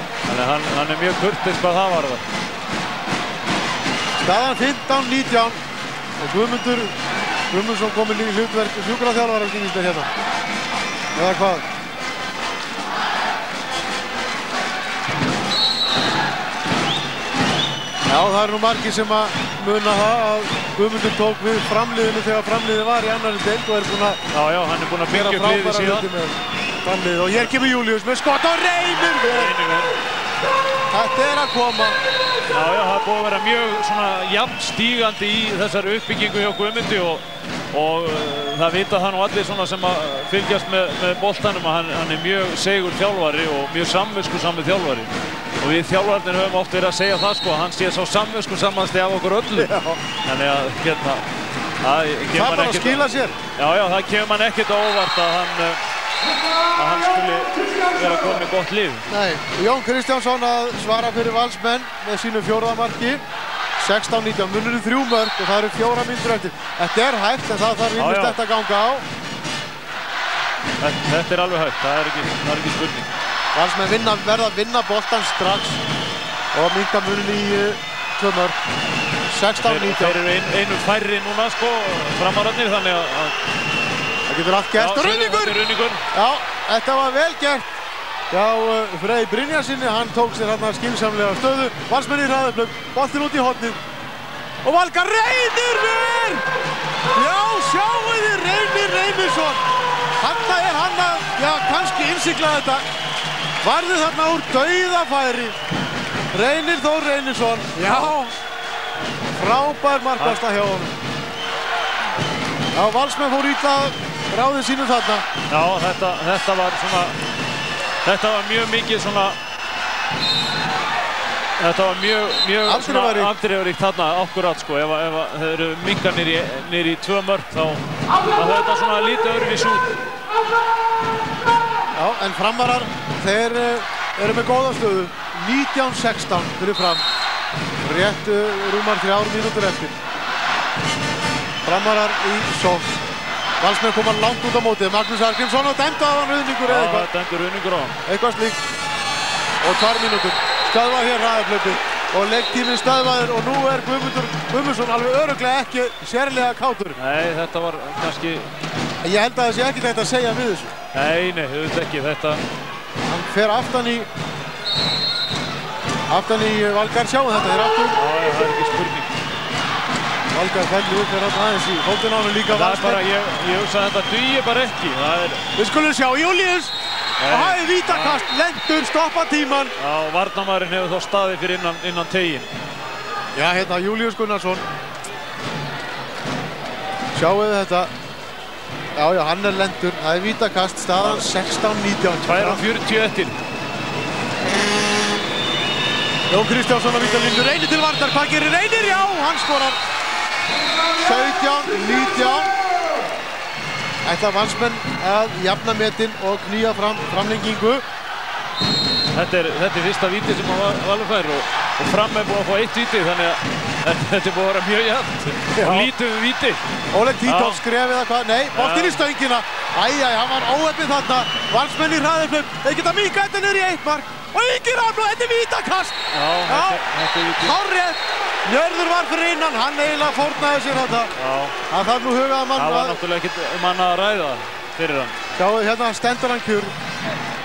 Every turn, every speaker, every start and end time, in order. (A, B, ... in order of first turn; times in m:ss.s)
0:00.3-0:02.2 A
0:04.2-0:05.6 B
0:06.2-0:06.9 B
0:07.5-0:10.1 B
0:11.2-0:11.6 B
0:18.1-0:24.2 B
0:24.3-0:26.1 A
0:25.1-0:29.5 B
0:29.2-0:29.9 A
0:30.9-0:32.0 B
0:32.5-0:49.7 A
0:49.6-0:50.0 B
0:50.2-0:51.2 A
0:51.8-0:55.8 A
0:52.3-0:53.4 B
0:56.8-0:59.0 A
0:59.1-1:03.2 B
1:03.8-1:09.0 B
1:08.0-1:08.4 A
1:10.8-1:13.1 A
1:13.5-1:15.8 B
1:16.5-1:18.6 B
1:19.3-1:20.2 B
1:19.6-1:23.3 A
1:24.3-1:25.6 B
1:24.8-1:26.0 A
1:26.1-1:27.7 B
1:28.3-1:33.8 B
1:34.6-1:36.4 B
1:37.1-1:39.6 B
1:40.2-1:42.8 B
1:43.6-1:45.6 B
1:46.3-1:48.3 B
1:49.4-1:50.9 B
1:52.7-1:55.2 B
1:55.5-1:57.2 A
1:58.0-1:59.4 A
2:01.6-2:09.9 A
2:02.6-2:03.3 B
2:11.9-2:17.0 B
2:17.8-2:20.0 B
2:21.6-2:23.0 B
2:23.6-2:27.1 B
2:26.6-2:28.0 A
2:28.0-2:28.6 B
2:29.6-2:37.0 B
2:37.0-2:38.5 A
2:39.0-2:40.7 B
2:40.9-2:42.4 A
2:43.0-2:44.1 B
2:46.1-2:48.0 B
2:48.0-2:49.1 A
2:50.3-2:53.0 B
2:52.5-2:55.4 A
2:55.6-2:56.7 B
2:57.2-2:58.2 A
2:57.3-2:59.7 B
2:59.8-3:02.5 A
3:03.3-3:04.6 B
3:07.1-3:07.9 B
3:09.0-3:12.6 B
3:11.0-3:11.3 A
3:12.2-3:13.4 A
3:16.3-3:19.8 B
3:21.0-3:22.5 B
3:24.0-3:27.8 B
3:29.1-3:36.6 A
3:35.5-3:35.9 B
3:36.9-3:46.8 B
3:37.2-3:37.6 A
3:38.5-3:39.0 A
3:46.1-3:47.5 A
3:47.4-3:51.1 B
3:51.2-3:51.5 A
3:51.7-3:53.0 B
3:52.5-3:55.2 A
3:55.4-3:56.7 B